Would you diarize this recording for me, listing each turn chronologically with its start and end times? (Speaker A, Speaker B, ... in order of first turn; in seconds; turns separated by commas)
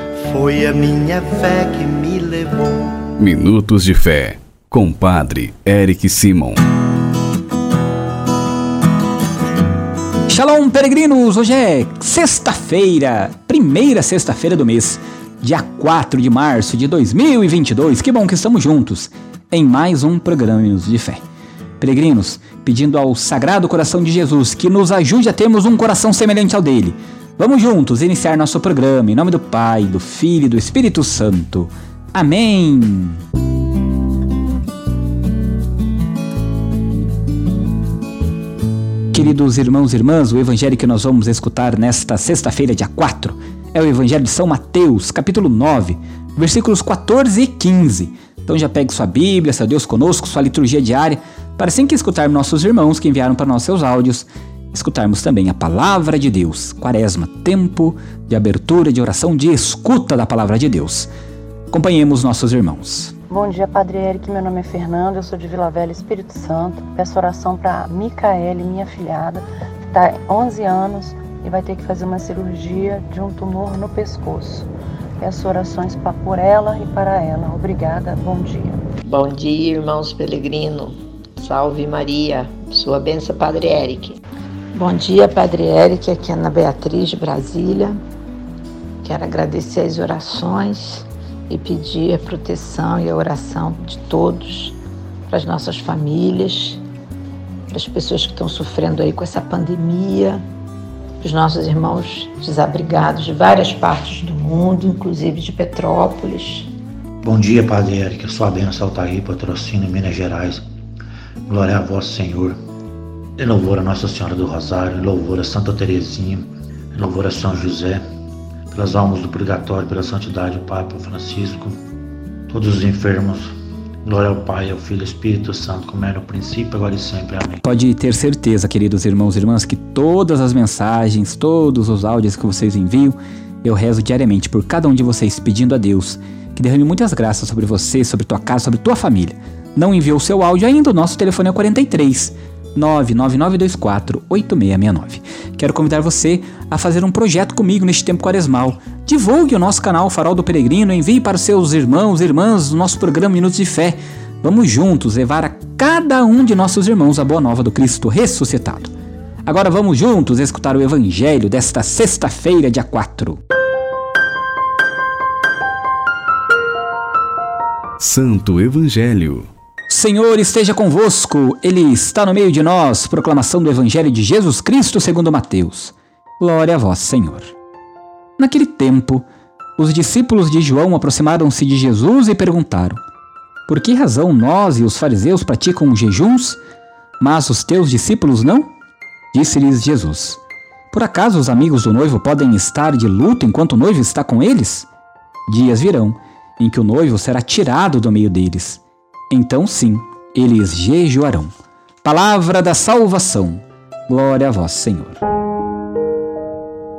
Speaker A: 0.2-2.9, Speaker B: 3.2-6.6, Speaker C: 10.3-21.2, Speaker C: 21.8-33.2, Speaker C: 39.1-61.1, Speaker C: 61.7-63.1, Speaker D: 63.3-74.7, Speaker D: 75.2-78.8, Speaker E: 79.1-84.2, Speaker F: 84.8-88.0, Speaker F: 89.0-94.8, Speaker F: 95.3-96.8, Speaker F: 97.7-100.4, Speaker F: 101.2-106.7, Speaker G: 107.2-110.6, Speaker G: 111.5-112.6, Speaker G: 113.4-118.0, Speaker G: 118.7-121.8, Speaker G: 122.5-123.5, Speaker G: 124.0-127.6, Speaker C: 127.6-158.9, Speaker C: 159.5-163.4, Speaker B: 168.0-169.5, Speaker C: 169.9-177.5, Speaker C: 178.4-179.3, Speaker C: 179.8-183.0, Speaker C: 183.7-186.6, Speaker C: 187.2-188.7, Speaker C: 189.3-190.4, Speaker C: 190.9-194.9, Speaker C: 195.5-201.5, Speaker C: 202.0-205.2